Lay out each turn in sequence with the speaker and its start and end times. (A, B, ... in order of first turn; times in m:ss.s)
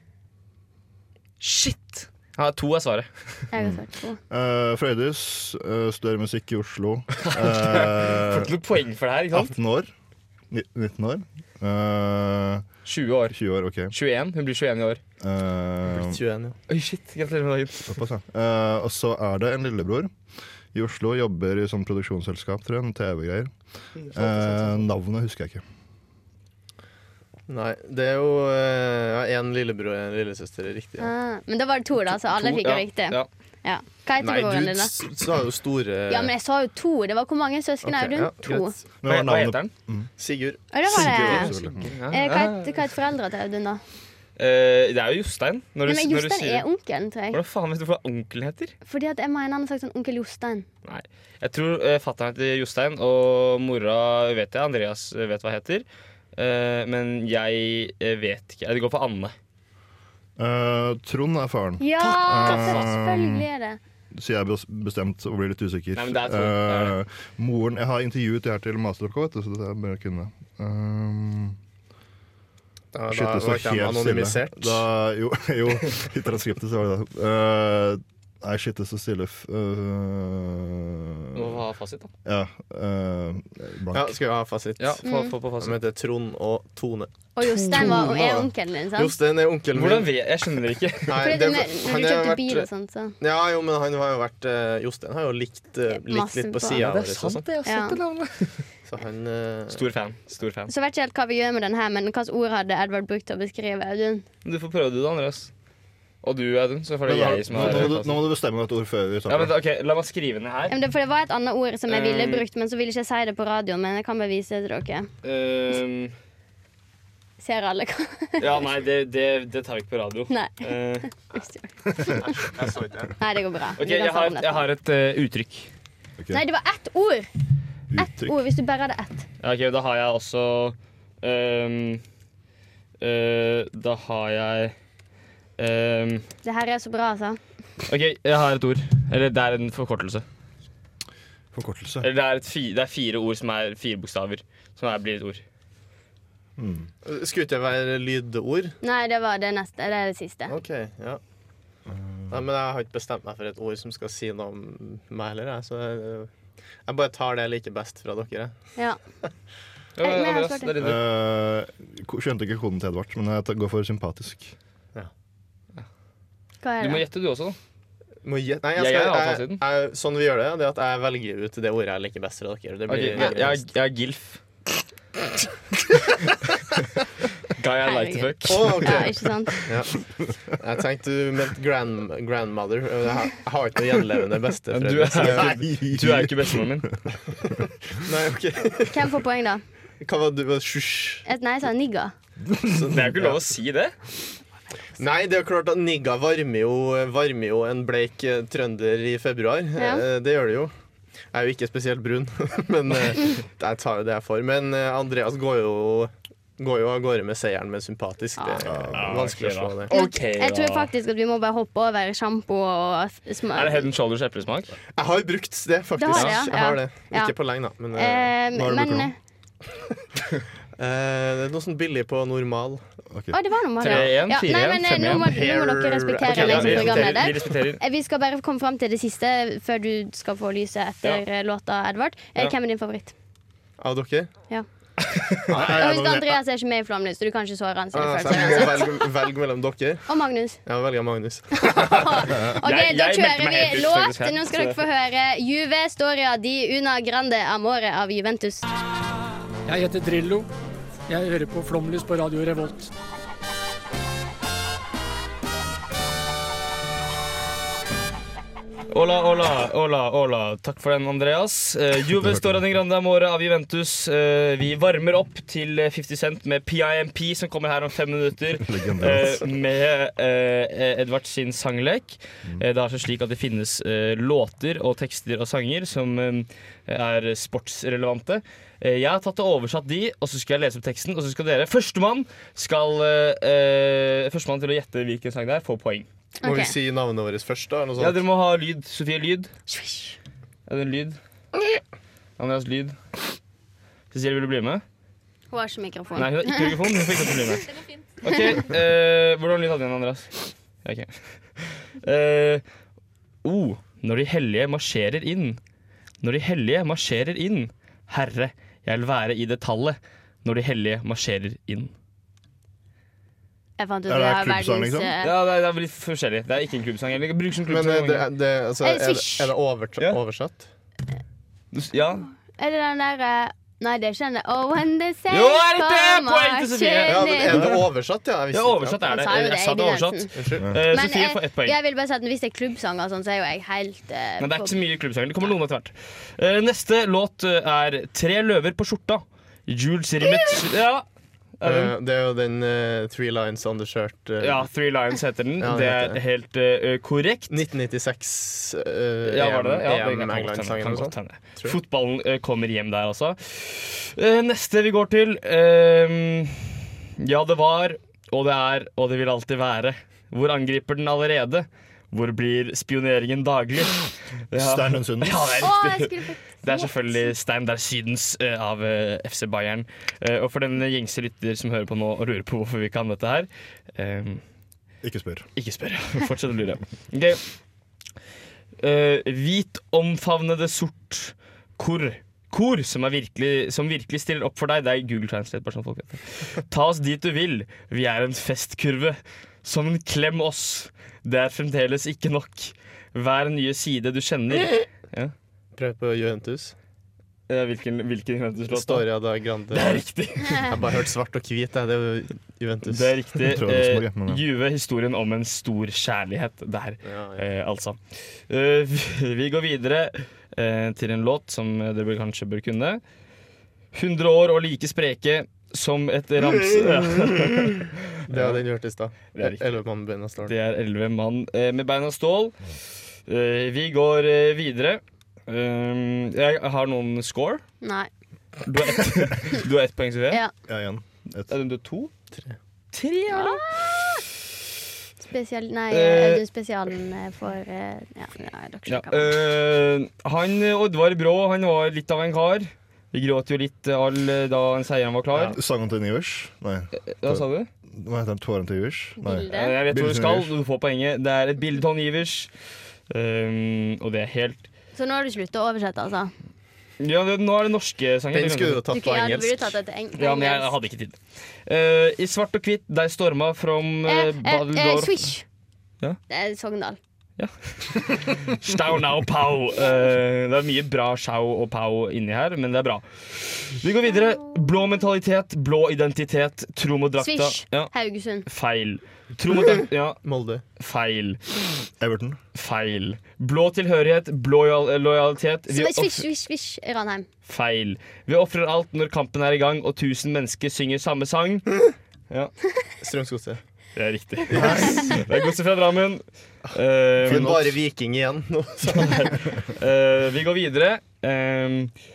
0:01.4-0:03.4 A
0:03.5-0:04.2 B
0:03.6-0:08.5 C
0:07.2-0:09.5 A
0:09.3-0:09.9 C
0:10.5-0:12.7 C
0:12.9-0:15.0 A
0:13.3-0:13.9 C
0:15.2-0:16.2 C
0:15.9-0:16.6 D
0:16.7-0:18.0 A
0:17.9-0:20.1 C
0:20.7-0:23.5 C
0:24.1-0:25.6 C
0:27.5-0:31.1 D
0:31.0-0:34.9 B
0:32.3-0:33.3 A
0:34.2-0:36.3 D
0:36.1-0:38.8 B
0:37.8-0:38.8 D
0:39.0-0:40.1 C
0:39.0-0:39.7 A
0:40.2-0:41.9 D
0:40.7-0:41.5 B
0:40.9-0:41.9 C
0:41.1-0:42.8 A
0:42.1-0:43.8 B
0:44.4-0:46.6 A
0:45.9-0:47.4 B
0:47.3-0:48.8 A
0:48.8-0:50.7 B
0:50.8-0:59.3 A
1:00.4-1:03.5 C
1:01.8-1:03.8 B
1:02.3-1:02.9 A
1:04.1-1:11.6 C
1:06.0-1:07.0 A
1:12.9-1:14.9 D
1:13.1-1:21.6 C
1:21.4-1:22.1 A
1:22.2-1:24.2 C
1:23.9-1:25.0 D
1:24.8-1:25.8 A
1:25.0-1:25.4 B
1:25.6-1:27.1 D
1:27.4-1:29.2 B
1:27.6-1:28.1 A
1:27.7-1:30.2 D
1:29.7-1:31.4 A
1:31.1-1:32.7 D
1:31.2-1:33.2 B
1:33.2-1:37.4 D
1:35.9-1:36.8 B
1:36.8-1:38.7 A
1:37.6-1:38.0 B
1:38.9-1:39.8 D
1:39.7-1:40.7 A
1:40.7-1:44.2 B
1:44.4-1:45.5 A
1:46.2-1:48.2 A
1:47.0-1:49.5 C
1:49.3-1:50.8 A
1:50.7-1:55.1 B
1:51.9-1:52.4 A
1:55.2-1:56.1 A
1:57.4-1:58.7 B
1:58.4-2:01.1 A
2:00.3-2:00.6 B
2:01.2-2:02.2 B
2:02.4-2:03.1 D
2:03.2-2:04.7 B
2:03.8-2:05.7 A
2:06.3-2:07.3 B
2:07.9-2:08.3 C
2:08.0-2:09.3 B
2:09.4-2:12.0 A
2:13.0-2:14.7 A
2:15.6-2:16.3 A
2:16.4-2:17.4 B
2:17.9-2:20.2 A
2:21.5-2:22.1 C
2:22.0-2:25.4 A
2:26.6-2:26.9 C
2:27.0-2:28.8 D
2:28.8-2:30.5 B
2:30.5-2:31.2 D
2:31.9-2:32.4 C
2:32.3-2:36.3 D
2:36.8-2:38.6 D
2:40.0-2:41.0 A
2:40.0-2:40.8 B
2:40.8-2:44.5 C
2:46.6-2:47.0 B
2:46.8-2:47.6 A
2:48.2-2:53.7 D
2:48.8-2:49.6 A
2:52.9-2:54.4 A
2:57.6-2:58.9 A
2:57.8-2:59.5 B
2:58.5-3:05.6 D
3:04.7-3:06.9 A
3:05.2-3:07.0 C
3:08.0-3:09.0 D
3:08.9-3:09.6 B
3:10.0-3:11.2 D
3:11.2-3:12.1 B
3:12.6-3:13.4 D
3:12.9-3:13.9 A
3:15.0-3:20.7 D
3:19.8-3:20.0 B
3:21.3-3:29.9 D
3:28.4-3:28.6 B
3:28.7-3:29.1 C
3:28.9-3:30.9 A
3:29.9-3:33.9 B
3:33.5-3:34.8 A
3:35.0-3:38.3 D
3:36.0-3:37.3 B
3:36.1-3:36.4 A
3:38.0-3:39.2 B
3:38.5-3:39.1 C
3:40.8-3:42.8 D
3:43.3-3:53.1 B
3:43.8-3:45.3 A
3:43.9-3:44.1 D
3:45.1-3:47.4 D
3:46.3-3:47.8 A
3:53.8-3:54.3 D
3:55.1-3:55.4 A
3:55.5-3:56.4 C
3:55.5-3:55.8 D
3:55.8-3:59.1 B
3:57.9-4:00.1 D
4:00.1-4:00.6 B
4:00.6-4:02.5 D
4:01.6-4:08.7 B
4:02.6-4:04.8 A
4:09.7-4:10.5 E
4:11.1-4:12.9 E
4:18.9-4:46.1 A
4:22.2-4:22.6 C
4:28.6-4:29.4 C
4:46.4-4:46.7 B
4:46.4-4:48.2 D
4:48.0-4:49.5 A
4:49.7-4:50.1 B
4:50.7-4:51.2 A
4:52.4-4:53.0 A
4:54.1-4:54.8 A
4:55.5-4:56.8 B
4:56.2-4:57.7 A
4:58.2-5:02.6 A
5:03.4-5:05.6 A
5:06.2-5:11.9 A
5:13.8-5:15.3 B
5:14.1-5:15.1 C
5:15.2-5:18.3 A
5:17.7-5:20.7 D
5:18.8-5:19.5 B
5:21.7-5:22.3 A
5:22.6-5:27.6 B
5:25.3-5:27.8 A
5:27.1-5:29.2 D
5:28.5-5:31.8 A
5:29.1-5:30.3 B
5:30.4-5:30.7 D
5:30.9-5:34.8 B
5:34.4-5:41.0 A
5:41.6-5:41.9 A
5:41.6-5:44.7 D
5:44.4-5:47.5 A
5:45.6-5:46.2 D
5:47.5-5:51.8 D
5:49.3-6:14.4 A
6:04.5-6:05.6 C
6:05.6-6:07.2 B
6:15.0-6:15.5 C
6:15.6-6:17.4 A
6:18.8-6:35.3 A
6:35.8-6:36.7 D
6:37.5-6:39.1 A
6:38.7-6:43.2 D
6:39.7-6:40.8 A
6:42.9-6:53.0 A
6:43.4-6:44.4 C
6:47.0-6:47.4 D
6:53.9-6:58.6 A
6:56.6-6:57.7 D
6:58.3-7:00.5 D
6:59.3-6:59.6 A
7:00.4-7:02.6 A
7:03.3-7:07.6 A
7:07.8-7:08.1 B
7:08.6-7:10.4 A
7:10.7-7:11.5 C
7:11.5-7:12.1 A
7:12.9-7:13.9 A
7:13.3-7:13.6 B
7:15.3-7:19.4 B
7:15.9-7:16.4 A
7:18.9-7:25.6 A
7:25.4-7:30.5 C
7:27.1-7:27.7 A
7:29.2-7:29.8 B
7:29.5-7:32.5 A
7:33.1-7:34.7 A
7:35.0-7:36.3 B
7:37.0-7:38.8 A
7:38.3-7:39.8 D
7:38.9-7:40.7 B
7:40.2-7:45.3 A
7:44.1-7:45.4 B
7:46.3-7:47.0 B
7:47.4-7:57.9 A
7:57.2-7:58.4 B
7:58.5-8:00.2 A
7:59.6-8:00.6 D
8:00.8-8:01.4 A
8:02.0-8:02.4 C
8:02.6-8:06.3 A
8:05.7-8:07.3 B
8:07.5-8:11.7 A
8:13.0-8:13.6 D
8:14.0-8:17.7 A
8:14.5-8:15.2 D
8:14.6-8:15.0 C
8:17.2-8:19.4 D
8:17.3-8:17.5 C
8:18.9-8:21.9 A